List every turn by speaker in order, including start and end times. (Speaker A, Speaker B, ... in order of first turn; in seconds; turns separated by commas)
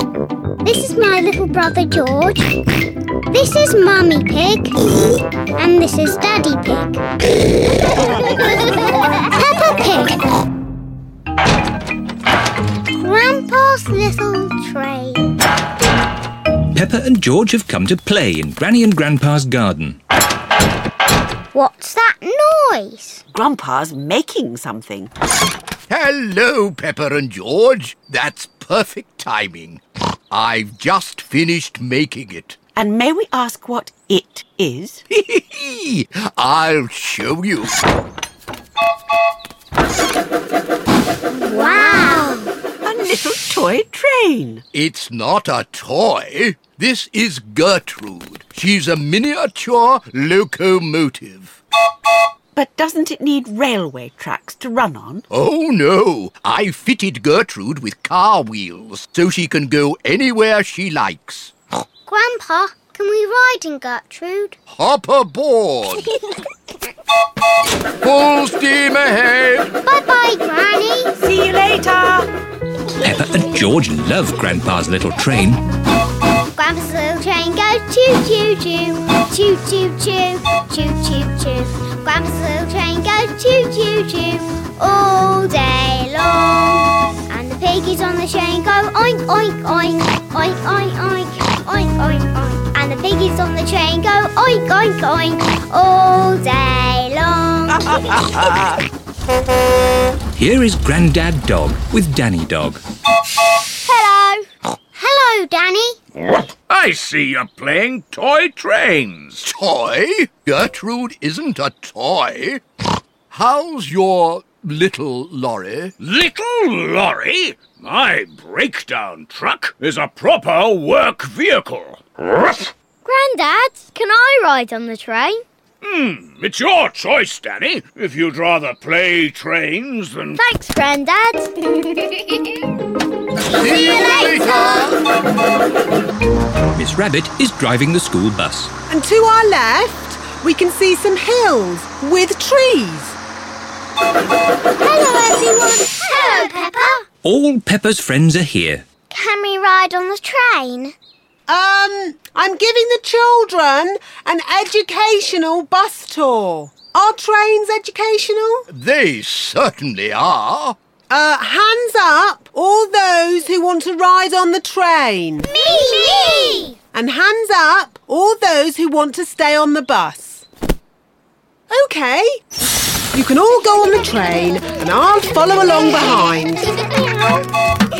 Speaker A: 0.6-2.6, Speaker A: 3.3-4.7, Speaker A: 5.6-7.0, Speaker A: 8.9-10.1, Speaker A: 12.9-15.3, Speaker B: 16.7-20.0, Speaker A: 21.5-23.2, Speaker C: 23.3-25.1, Speaker D: 25.9-32.6, Speaker C: 32.8-35.0, Speaker D: 35.1-37.7, Speaker A: 41.4-42.5, Speaker C: 42.8-44.6, Speaker D: 44.7-51.6, Speaker C: 52.5-55.2, Speaker D: 55.3-61.5, Speaker A: 62.1-64.5, Speaker D: 64.7-66.1, Speaker D: 68.0-69.7, Speaker A: 69.8-71.1, Speaker C: 71.2-72.3, Speaker B: 73.0-75.6, Speaker A: 76.5-98.2, Speaker B: 100.3-102.8, Speaker A: 103.8-104.4, Speaker A: 104.9-106.0, Speaker E: 106.5-109.5, Speaker D: 109.4-112.6, Speaker D: 113.3-115.9, Speaker E: 116.0-122.7, Speaker A: 123.0-125.4, Speaker E: 125.8-130.4, Speaker A: 130.4-131.9, Speaker D: 133.4-135.0, Speaker A: 133.6-134.9, Speaker B: 136.7-138.7, Speaker F: 138.9-143.2, Speaker A: 144.8-147.0, Speaker B: 147.2-148.8, Speaker A: 149.1-150.9, Speaker F: 151.5-158.7, Speaker D: 158.7-160.8, Speaker F: 161.1-165.5, Speaker A: 165.4-166.7, Speaker F: 166.9-170.4, Speaker F: 171.7-172.4, Speaker F: 173.1-176.7